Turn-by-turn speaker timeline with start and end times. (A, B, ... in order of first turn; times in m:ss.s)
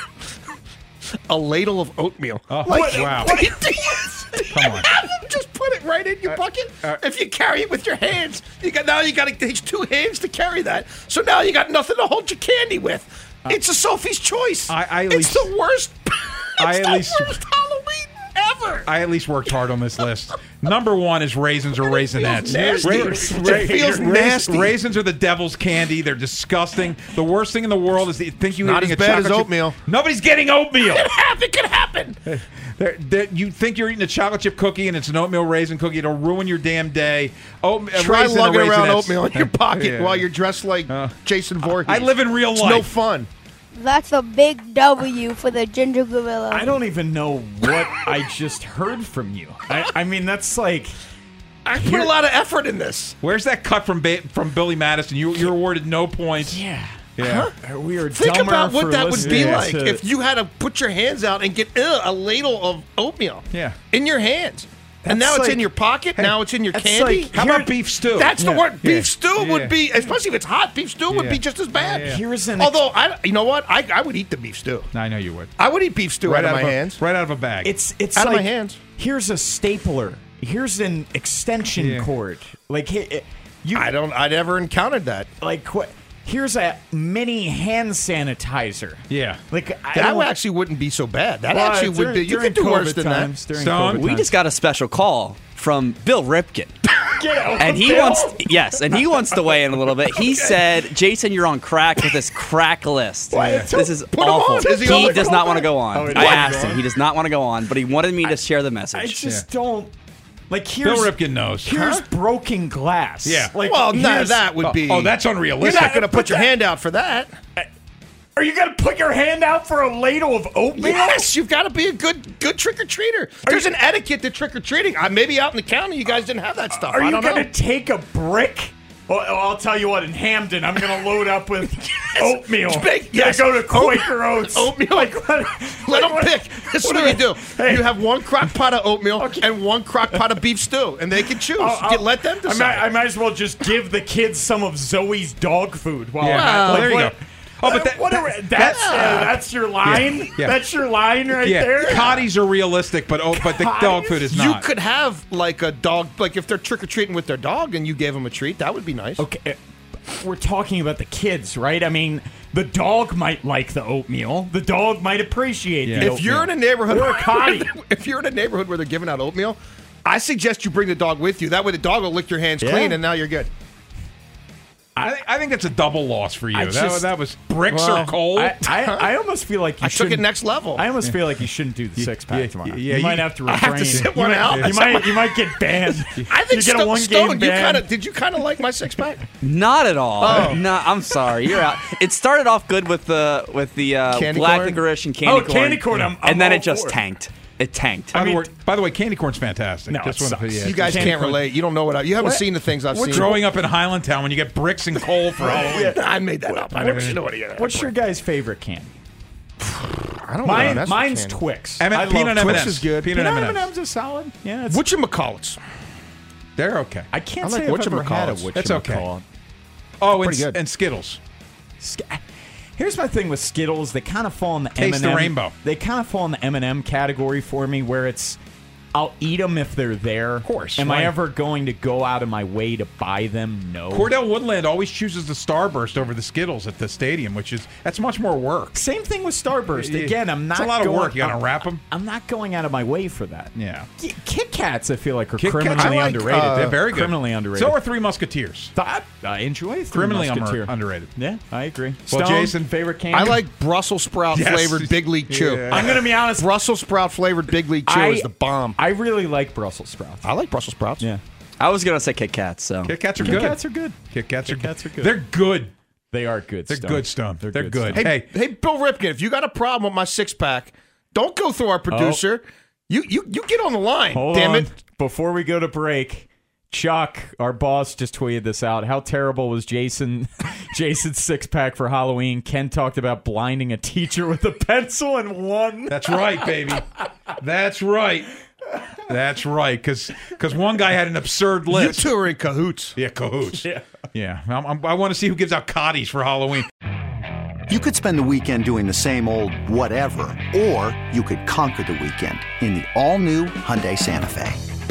0:01.3-0:18.9 A
0:02.5-0:03.3 B
0:02.6-0:04.1 C
0:04.5-0:04.9 B
0:14.7-0:15.5 B
0:16.6-0:17.4 B
0:18.8-0:31.1 B
0:21.8-0:24.8 A
0:22.2-0:24.1 C
0:28.6-0:29.8 A
0:30.9-0:32.2 A
0:32.3-0:40.3 B
0:37.9-0:43.3 A
0:40.9-0:42.9 B
0:43.8-0:46.8 D
0:46.5-0:51.0 C
0:51.7-0:53.2 A
0:51.7-0:52.1 C
0:53.2-0:56.6 B
0:56.5-0:57.0 C
0:57.2-0:57.5 B
0:57.2-0:57.5 A
0:57.6-1:00.0 C
0:58.1-1:07.3 A
0:59.1-0:59.6 B
1:03.5-1:03.8 B
1:05.0-1:05.6 C
1:06.7-1:07.7 C
1:07.3-1:09.8 B
1:08.1-1:14.9 A
1:11.1-1:12.2 B
1:11.8-1:12.8 C
1:14.9-1:15.5 B
1:15.6-1:17.0 A
1:16.2-1:17.7 B
1:17.6-1:23.9 C
1:18.1-1:18.8 A
1:21.8-1:22.1 B
1:23.7-1:25.3 A
1:25.4-1:30.3 C
1:29.1-1:29.4 B
1:29.9-1:33.4 A
1:31.5-1:34.3 C
1:33.5-1:34.1 B
1:34.0-1:36.8 E
1:37.0-1:38.5 C
1:37.6-1:49.2 E
1:40.3-1:40.7 A
1:43.3-1:44.0 C
1:43.3-1:43.7 B
1:44.0-1:46.3 A
1:44.5-1:46.9 C
1:48.9-1:49.9 C
1:50.5-1:54.4 C
1:50.8-1:51.8 B
1:51.7-1:52.1 A
1:53.2-1:53.6 B
1:53.6-1:57.4 A
1:54.5-1:56.0 B
1:55.7-1:56.5 C
1:58.4-2:01.3 C
2:00.8-2:07.5 A
2:06.9-2:18.0 C
2:12.2-2:15.2 A
2:15.8-2:22.8 A
2:19.2-2:19.4 C
2:21.6-2:32.3 C
2:26.2-2:29.0 B
2:26.3-2:27.0 A
2:28.6-2:29.3 A
2:29.8-2:30.6 B
2:31.4-2:34.7 B
2:33.3-2:34.3 C
2:34.3-2:39.2 A
2:39.2-2:39.6 C
2:40.1-2:47.7 C
2:45.8-2:46.2 B
2:46.0-2:53.5 A
2:52.6-2:53.0 C
2:55.0-2:58.6 B
2:56.5-2:57.1 C
2:57.7-2:59.1 A
2:57.7-3:07.9 C
2:59.8-3:00.8 A
3:02.0-3:03.4 B
3:03.5-3:05.4 A
3:03.9-3:04.8 B
3:06.3-3:09.2 A
3:09.4-3:18.2 E
3:10.2-3:10.6 A
3:10.3-3:10.6 C
3:14.1-3:14.8 A
3:15.2-3:17.0 C
3:18.1-3:21.3 B
3:18.1-3:18.4 C
3:19.9-3:21.5 C
3:20.6-3:23.3 A
3:22.2-3:23.5 C
3:23.1-3:25.9 B
3:25.4-3:27.9 A
3:25.4-3:29.0 C
3:26.8-3:27.2 B
3:29.6-3:31.4 A
3:30.4-3:34.8 C
3:30.5-3:30.8 B
3:31.8-3:33.7 B
3:32.4-3:33.1 A
3:34.7-3:35.6 A
3:36.6-3:37.1 B
3:37.1-3:39.2 C
3:37.4-3:38.5 A
3:38.5-3:39.1 B
3:40.0-3:41.2 B
3:40.1-3:40.6 A
3:41.8-3:42.2 C
3:42.8-3:48.4 C
3:44.8-3:45.5 B
3:48.9-3:54.1 C
3:50.4-3:51.1 B
3:53.9-3:58.8 B
3:58.7-4:07.8 C
3:59.8-4:01.8 B
4:03.6-4:03.9 B
4:05.4-4:08.7 B
4:05.8-4:06.8 A
4:08.8-4:13.4 C
4:09.9-4:11.1 B
4:12.1-4:12.6 B
4:13.1-4:18.8 A
4:14.3-4:16.1 B
4:15.7-4:16.5 C
4:17.9-4:20.3 C
4:20.2-4:21.1 A
4:21.6-4:23.4 E
4:22.9-4:25.7 B
4:23.2-4:25.2 C
4:26.1-4:28.1 C
4:26.7-4:28.3 B
4:28.0-4:34.7 A
4:31.9-4:32.2 C
4:34.1-4:46.0 C
4:45.9-4:46.9 B
4:47.4-4:48.3 B
4:49.1-4:52.1 B
4:51.7-4:53.0 A
4:53.0-4:56.7 B
4:57.7-5:04.6 F